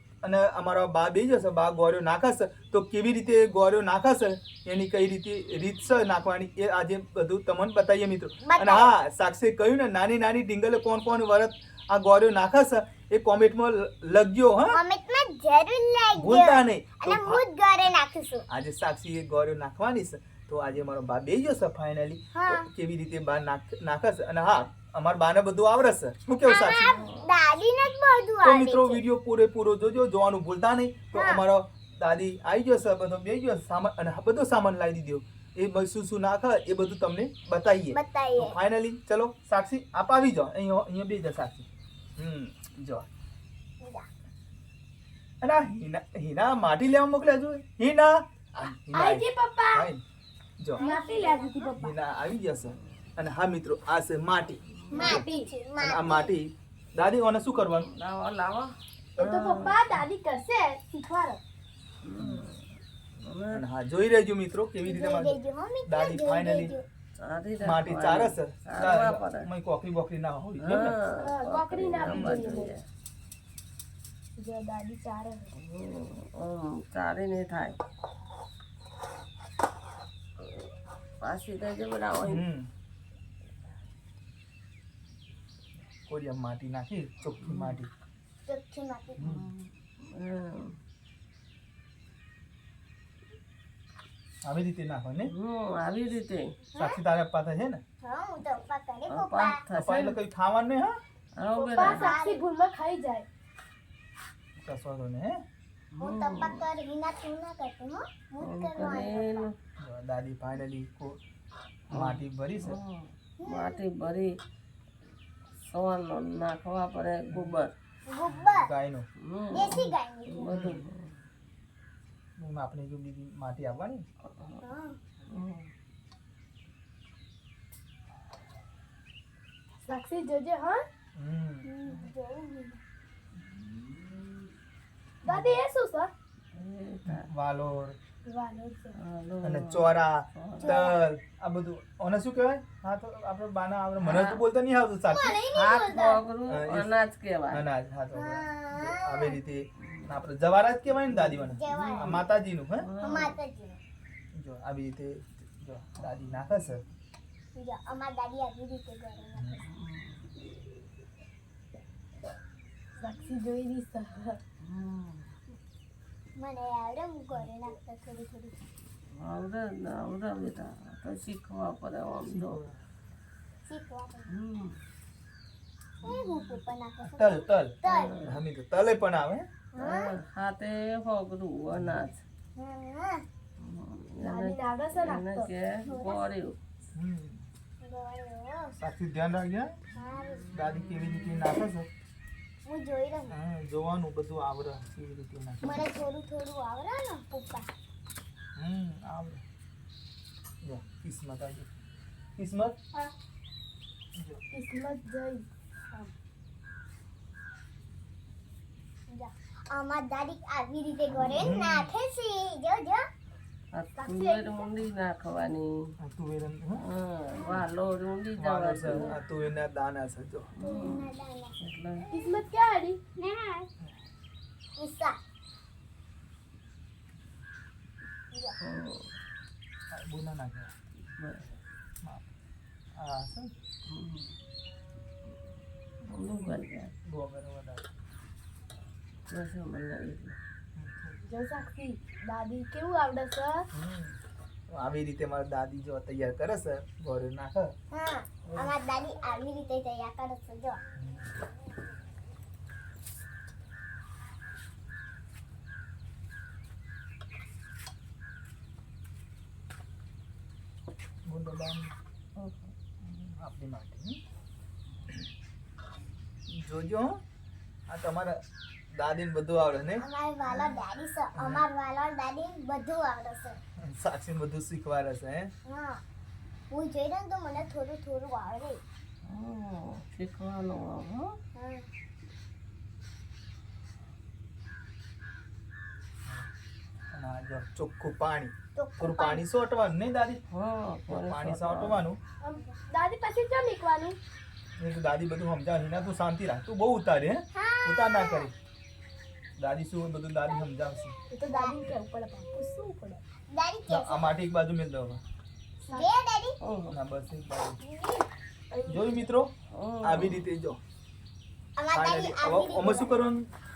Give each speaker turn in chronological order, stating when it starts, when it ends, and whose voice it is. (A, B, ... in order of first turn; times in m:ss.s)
0:00.2-0:14.8 A
0:08.4-0:08.9 B
0:14.7-0:18.4 B
0:16.2-0:17.4 A
0:18.5-0:26.9 A
0:22.3-0:22.7 B
0:26.4-0:29.0 B
0:26.9-0:27.2 C
0:28.4-0:43.1 A
0:31.1-0:31.4 B
0:37.9-0:38.6 B
0:43.8-0:44.1 B
0:45.4-0:50.0 A
0:48.9-0:49.9 D
0:50.6-0:50.8 A
0:50.8-0:51.8 B
0:50.8-0:51.9 D
0:51.8-0:55.2 A
0:54.8-0:55.1 C
0:54.9-0:55.5 D
0:54.9-0:56.4 B
0:55.8-0:57.9 A
0:57.9-1:00.0 C
0:59.2-1:01.4 D
1:02.0-1:02.6 C
1:02.2-1:02.4 A
1:03.2-1:03.6 C
1:03.5-1:06.7 A
1:04.8-1:06.8 B
1:07.2-1:09.5 C
1:07.6-1:11.0 A
1:10.6-1:12.8 C
1:11.2-1:12.7 D
1:12.0-1:12.6 A
1:14.4-1:15.5 D
1:15.6-1:17.8 C
1:20.4-1:22.4 C
1:22.2-1:22.7 A
1:26.1-1:27.9 A
1:27.4-1:27.8 C
1:28.4-1:29.2 B
1:29.2-1:29.5 A
1:29.2-1:30.8 C
1:34.4-1:35.3 A
1:35.3-1:36.5 C
1:36.7-1:37.0 B
1:36.8-1:37.8 A
1:38.0-1:39.6 B
1:39.1-1:40.2 C
1:39.7-1:41.0 A
1:41.4-1:42.1 C
1:41.6-1:42.4 B
1:41.7-1:43.2 D
1:44.6-1:45.4 A
1:45.9-1:46.6 C
1:46.0-1:49.5 B
1:48.4-1:49.5 C
1:49.8-1:51.2 A
1:51.9-1:52.8 A
1:51.9-1:54.4 C
1:53.4-1:53.8 B
1:55.6-1:57.7 C
1:58.1-1:58.7 B
1:58.3-1:59.1 A
1:59.2-2:01.2 C
1:59.5-2:00.5 B
2:00.5-2:00.9 A
2:02.4-2:04.0 A
2:04.3-2:04.6 C
2:04.6-2:05.0 B
2:05.3-2:05.7 C
2:09.8-2:10.8 D
2:11.1-2:12.1 A
2:11.6-2:12.8 B
2:15.2-2:16.1 D
2:15.2-2:15.6 A
2:16.5-2:17.3 C
2:17.0-2:18.0 A
2:18.2-2:19.0 D
2:18.9-2:20.8 C
2:19.4-2:25.4 A
2:20.6-2:21.0 B
2:24.0-2:24.4 C
2:25.1-2:26.2 B
2:25.5-2:27.6 C
2:26.5-2:26.9 A
2:27.5-2:32.9 A
2:28.1-2:29.4 B
2:31.3-2:32.2 C
2:31.5-2:32.2 B
2:32.8-2:33.4 C
2:33.0-2:33.8 B
2:34.3-2:36.8 A
2:37.5-2:39.6 B
2:39.4-2:39.6 A
2:39.6-2:40.2 C
2:43.0-2:44.4 D
2:44.6-2:45.2 C
2:46.3-2:48.6 B
2:49.1-2:52.6 C
2:52.2-2:52.8 A
2:53.6-2:54.3 B
2:54.3-2:54.8 C
2:56.0-2:58.1 B
2:57.0-2:59.4 A
2:57.8-2:58.4 C
2:59.7-3:00.1 B
2:59.8-3:02.2 C
3:01.7-3:02.0 A
3:02.6-3:03.2 B
3:03.6-3:06.6 C
3:04.2-3:05.5 D
3:05.8-3:06.3 B
3:06.9-3:07.4 A
3:07.8-3:08.7 B
3:08.8-3:09.7 A
3:09.9-3:10.5 B
3:10.5-3:11.9 A
3:10.9-3:11.3 C
3:12.6-3:13.3 B
3:13.3-3:15.8 A
3:15.6-3:17.7 B
3:18.6-3:19.4 A
3:20.6-3:21.7 A
3:22.4-3:22.8 A
3:24.2-3:24.4 A
3:24.5-3:26.1 D
3:29.1-3:33.0 B
3:31.4-3:31.9 A
3:33.7-3:35.7 C
3:34.0-3:34.7 D
3:36.0-3:36.8 A
3:36.8-3:39.2 C
3:38.4-3:40.5 A
3:40.6-3:41.1 C
3:40.6-3:41.6 B
3:41.6-3:42.1 C
3:42.1-3:43.0 D
3:43.2-3:43.7 B
3:44.8-3:45.2 B
3:48.6-3:49.1 C
3:49.9-3:50.7 A
3:51.2-3:51.4 C
3:53.0-3:53.5 A
3:53.9-3:54.3 C
3:56.0-3:56.9 C
3:57.0-3:57.8 A
3:59.3-4:00.4 C
4:00.8-4:01.2 A
4:01.2-4:03.7 D
4:03.7-4:04.2 A
4:04.7-4:07.7 A
4:07.9-4:10.8 B
4:08.5-4:08.7 A
4:11.0-4:11.3 A
4:21.2-4:21.9 A
4:22.4-4:22.7 C
4:23.0-4:24.2 A
4:26.5-4:27.2 A
4:27.9-4:28.4 A
4:28.9-4:30.0 A
4:30.0-4:33.6 B
4:31.4-4:31.6 A
4:33.8-4:35.5 A
4:35.6-4:36.0 B
4:36.7-4:38.8 B
4:39.2-4:41.3 C
4:41.5-4:41.8 B
4:47.1-4:50.4 A
4:48.7-4:49.4 B
4:50.5-4:52.0 C
4:51.1-4:52.2 A
4:52.4-4:54.2 D
4:54.8-4:58.5 A
4:57.5-4:58.5 B
4:59.6-5:01.1 A
5:01.3-5:03.2 D
5:01.5-5:01.8 B
5:03.5-5:04.4 B
5:03.9-5:05.2 A
5:05.8-5:06.1 D
5:05.9-5:06.6 B
5:06.6-5:07.0 C
5:06.9-5:07.8 A
5:07.8-5:08.2 B
5:08.7-5:09.2 D
5:08.8-5:09.5 A
5:09.7-5:10.4 C
5:10.0-5:10.8 A
5:11.8-5:13.3 B
5:11.9-5:13.5 A